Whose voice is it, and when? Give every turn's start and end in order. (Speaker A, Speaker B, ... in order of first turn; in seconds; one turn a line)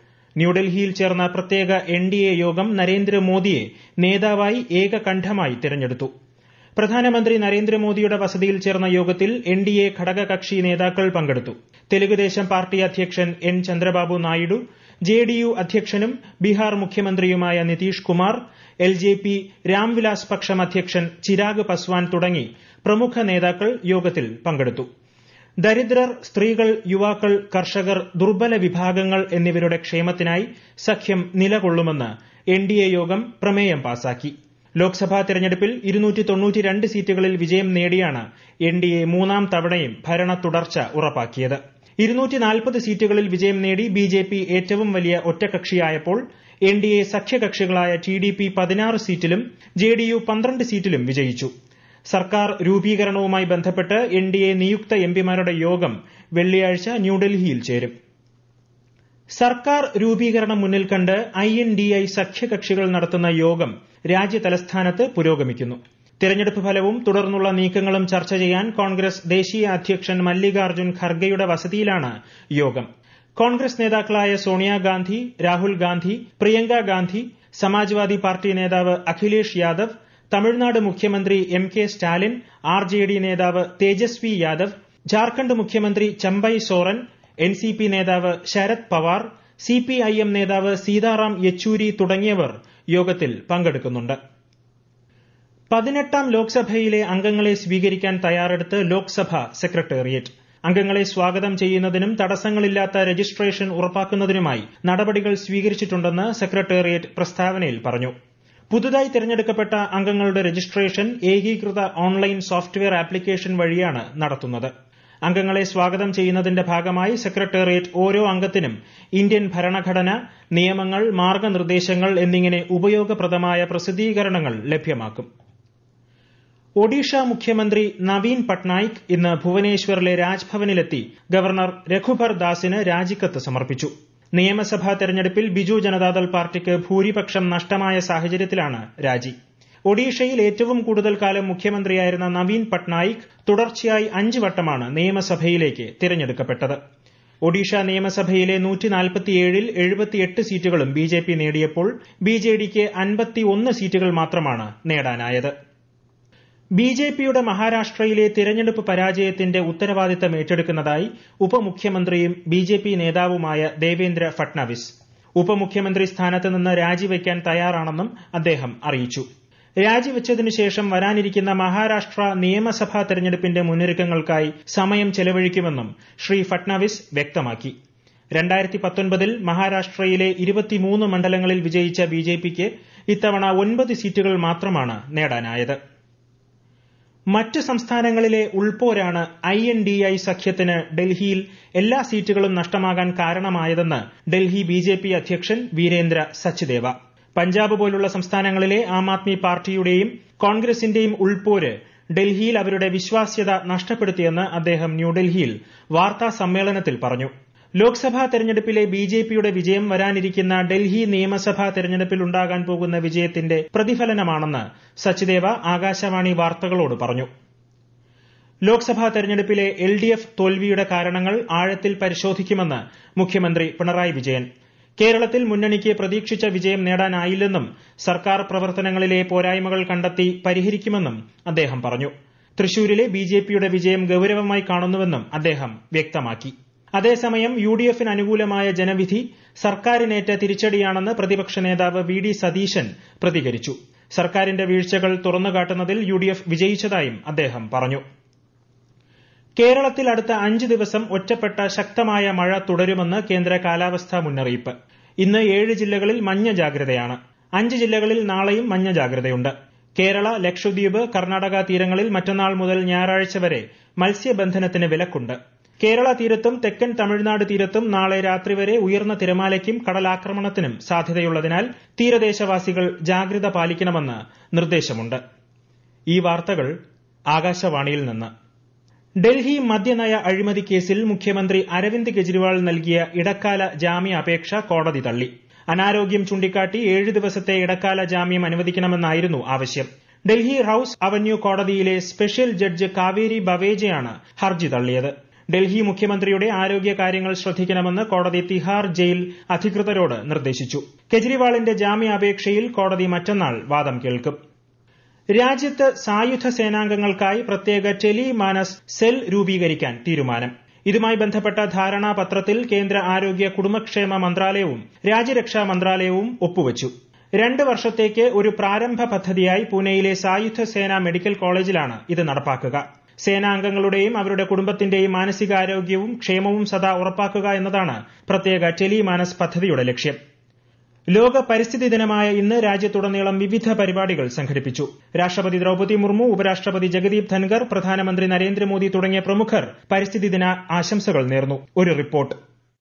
Speaker A: 0.4-6.1
Speaker A: 6.8-24.9
Speaker A: 25.6-51.5
Speaker A: 52.1-57.9
Speaker A: 59.3-94.2
Speaker A: 95.7-108.1
Speaker A: 108.7-114.7
Speaker A: 115.2-125.3
Speaker A: 126.8-139.3
Speaker A: 139.8-146.8
Speaker A: 147.4-155.5
Speaker A: 156.8-169.2
Speaker A: 169.8-177.7
Speaker A: 178.3-185.8
Speaker A: 187.3-217.3
Speaker A: 218.7-224.5
Speaker A: 225.0-248.0
Speaker A: 249.6-275.2
Speaker A: 276.1-276.8
Speaker A: 277.3-278.3
Speaker A: 279.2-304.4
Speaker A: 305.3-330.2
Speaker A: 331.1-342.4